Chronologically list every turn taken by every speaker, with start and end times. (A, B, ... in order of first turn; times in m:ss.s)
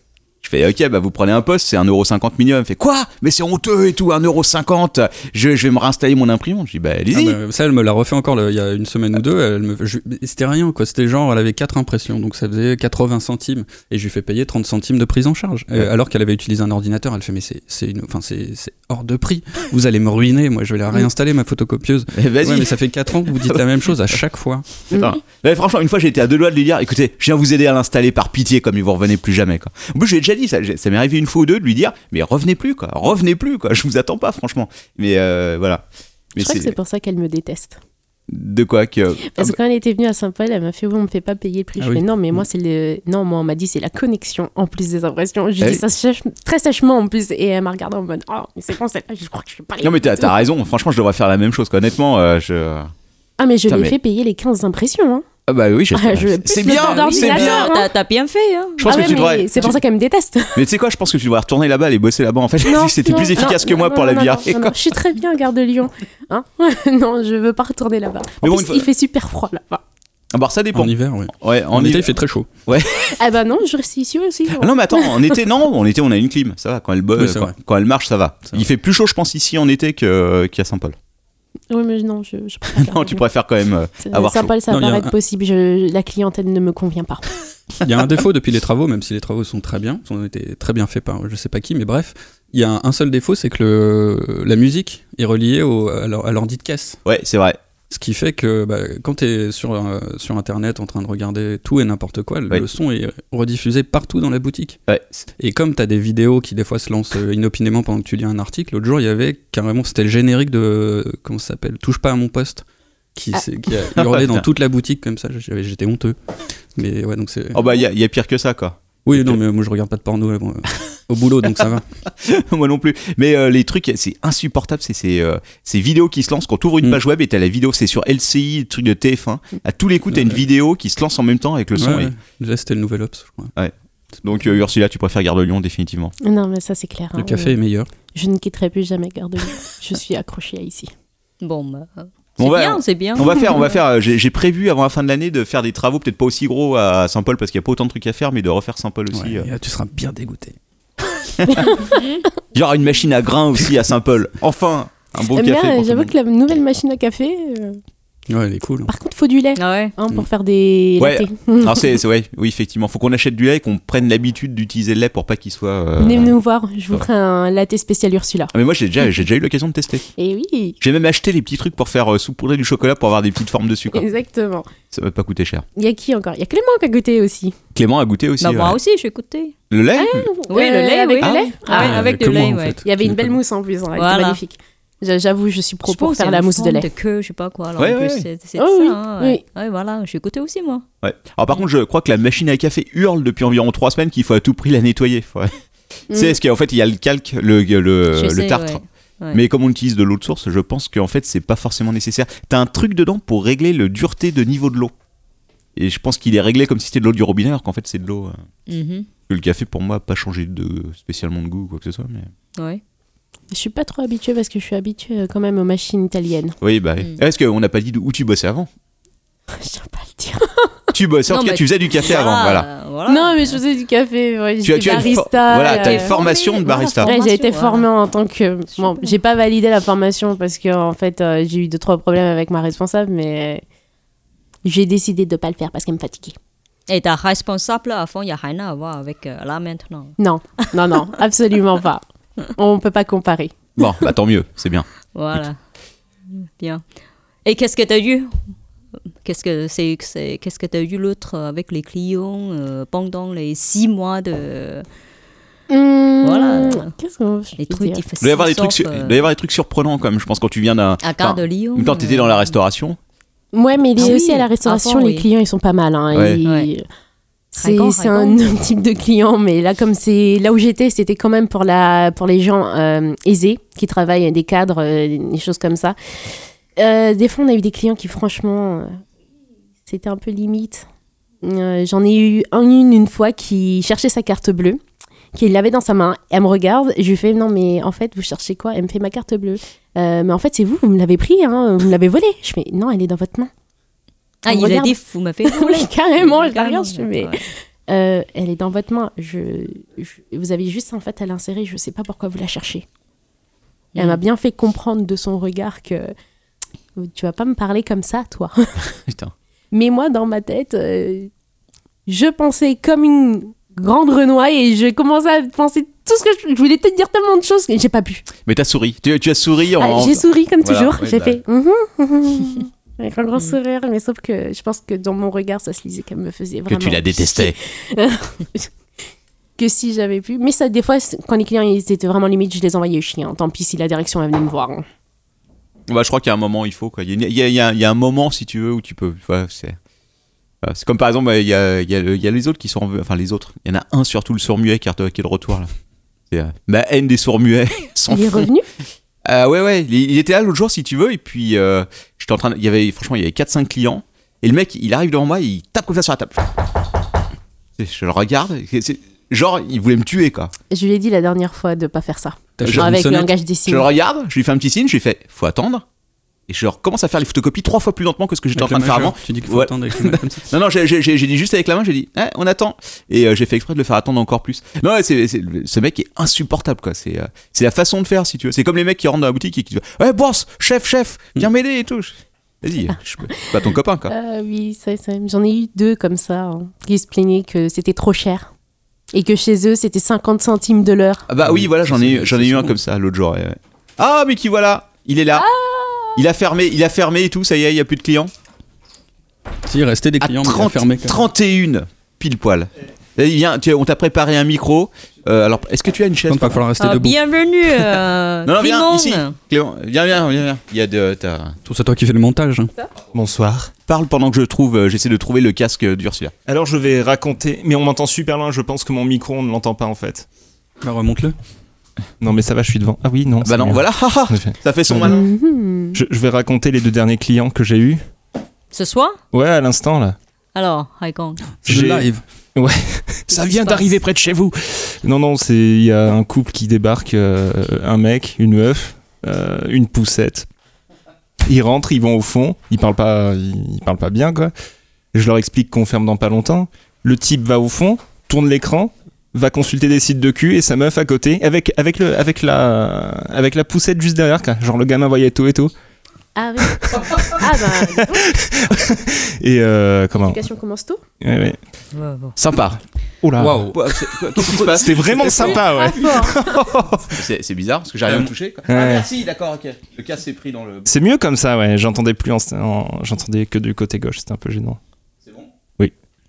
0:00.4-0:07.4 A
0:07.1-0:24.9 B
0:22.1-0:24.2 A
0:24.9-0:36.7 A
0:36.4-0:37.8 C
0:38.3-0:39.6 A
0:39.3-0:50.3 C
0:41.8-0:42.0 B
0:49.8-0:52.9 A
0:53.4-0:55.2 C
0:53.7-0:54.0 A
0:55.5-0:57.7 A
0:55.9-0:57.9 C
0:56.6-0:59.7 D
0:58.8-0:59.8 A
0:58.8-1:00.6 C
1:00.5-1:04.8 A
1:02.6-1:09.8 C
1:08.4-1:08.9 A
1:10.3-1:13.2 A
1:10.7-1:12.5 B
1:13.2-1:15.4 C
1:14.5-1:21.0 A
1:17.2-1:17.5 B
1:21.7-1:23.2 C
1:22.8-1:24.5 A
1:24.0-1:27.2 C
1:24.7-1:25.1 B
1:27.8-1:37.0 B
1:37.0-1:37.6 A
1:37.9-1:44.8 B
1:44.9-1:45.3 A
1:45.4-1:56.2 B
1:53.9-1:54.5 A
1:56.7-1:57.6 B
1:57.5-1:59.4 A
1:59.0-2:01.8 B
2:02.1-2:12.1 A
2:10.1-2:10.4 B
2:11.8-2:13.5 B
2:13.6-2:16.1 A
2:16.2-2:17.6 C
2:17.2-2:17.9 B
2:18.1-2:20.9 C
2:21.4-2:23.7 D
2:22.4-2:29.5 A
2:29.1-2:30.6 B
2:31.4-2:31.8 A
2:31.5-2:31.9 C
2:31.9-2:32.2 D
2:32.5-2:36.1 A
2:35.3-2:37.8 C
2:38.3-2:38.9 B
2:38.9-2:42.0 C
2:39.6-2:39.9 D
2:41.0-2:46.3 A
2:46.0-2:48.5 C
2:48.5-2:50.1 A
2:50.2-2:50.8 C
2:50.8-2:54.1 A
2:53.9-2:54.7 C
2:54.9-2:55.6 A
2:55.8-2:57.6 C
2:57.7-2:58.8 A
2:58.4-2:59.5 D
2:59.7-3:00.3 A
3:00.0-3:02.1 C
3:00.5-3:02.8 D
3:01.2-3:01.5 A
3:01.7-3:03.4 B
3:02.8-3:06.9 C
3:04.0-3:04.4 D
3:05.9-3:10.8 D
3:07.8-3:08.2 A
3:08.6-3:09.4 C
3:11.0-3:15.5 A
3:16.1-3:16.4 C
3:16.1-3:18.8 A
3:18.2-3:19.4 D
3:19.3-3:24.9 A
3:25.8-3:28.4 A
3:28.7-3:29.1 D
3:29.3-3:32.3 A
3:32.6-3:32.8 D
3:33.5-3:36.6 C
3:36.6-3:38.7 A
3:39.5-3:40.8 C
3:40.9-3:42.7 A
3:41.3-3:43.6 D
3:43.1-3:53.6 C
3:44.6-3:47.1 A
3:45.6-3:47.9 D
3:48.8-3:49.2 D
3:54.6-3:56.4 C
3:56.9-4:00.2 D
4:00.2-4:04.0 C
4:03.8-4:04.9 A
4:05.1-4:05.6 D
4:06.3-4:06.8 D
4:07.4-4:08.4 D
4:09.2-4:14.8 D
4:15.7-4:18.0 C
4:16.2-4:16.9 D
4:17.6-4:19.2 D
4:18.2-4:23.0 A
4:21.0-4:22.5 D
4:23.5-4:26.8 C
4:24.0-4:25.2 D
4:26.1-4:26.4 A
4:26.4-4:26.7 D
4:27.5-4:39.0 C
4:27.6-4:28.6 D
4:39.8-4:40.8 C
4:41.4-4:44.8 C
4:45.3-4:53.5 C
4:54.4-4:57.4 D
4:54.5-5:02.8 C
5:03.9-5:04.2 D
5:04.0-5:06.1 C
5:07.0-5:08.6 C
5:09.0-5:09.3 A
5:09.7-5:11.3 C
5:12.1-5:18.2 C
5:18.4-5:21.4 A
5:19.8-5:28.7 C
5:26.7-5:27.6 A
5:29.6-5:34.8 C
5:35.9-5:39.8 A
5:40.6-5:45.7 A
5:46.3-5:48.5 A
5:48.1-5:48.6 C
5:49.2-5:56.5 A
5:57.8-6:00.5 A
6:00.7-6:03.9 C
6:02.6-6:03.3 B
6:02.6-6:03.0 A
6:03.7-6:05.8 A
6:06.5-6:24.1 A
6:08.5-6:10.5 B
6:23.3-6:28.5 C
6:29.1-6:31.3 C
6:31.3-6:35.5 A
6:31.4-6:32.8 B
6:35.3-6:36.2 C
6:36.1-6:38.3 A
6:39.6-6:41.2 B
6:40.2-6:46.6 A
6:46.3-6:47.2 B
6:46.8-6:49.4 D
6:48.4-6:51.6 A
6:51.6-6:52.7 B
6:53.1-6:53.7 E
6:53.9-6:56.3 A
6:56.5-7:00.3 E
7:00.8-7:01.3 B
7:02.2-7:05.2 E
7:03.4-7:05.2 A
7:05.0-7:06.0 C
7:05.9-7:08.0 E
7:08.7-7:09.2 D
7:09.3-7:10.2 E
7:10.5-7:11.5 D
7:11.6-7:12.2 B
7:11.6-7:20.5 E
7:13.3-7:13.8 D
7:21.4-7:24.5 E
7:25.1-7:35.7 E
7:36.4-7:38.3 C
7:36.7-7:40.4 E
7:40.2-7:41.0 C
7:41.2-7:41.6 E
7:41.9-7:42.4 D
7:42.4-7:42.8 A
7:43.2-7:43.7 E
7:43.4-7:43.8 B
7:43.7-7:45.6 A
7:44.4-7:47.2 E
7:45.6-7:46.5 C
7:47.1-7:50.9 A
7:48.7-7:49.1 E
7:50.9-7:54.8 E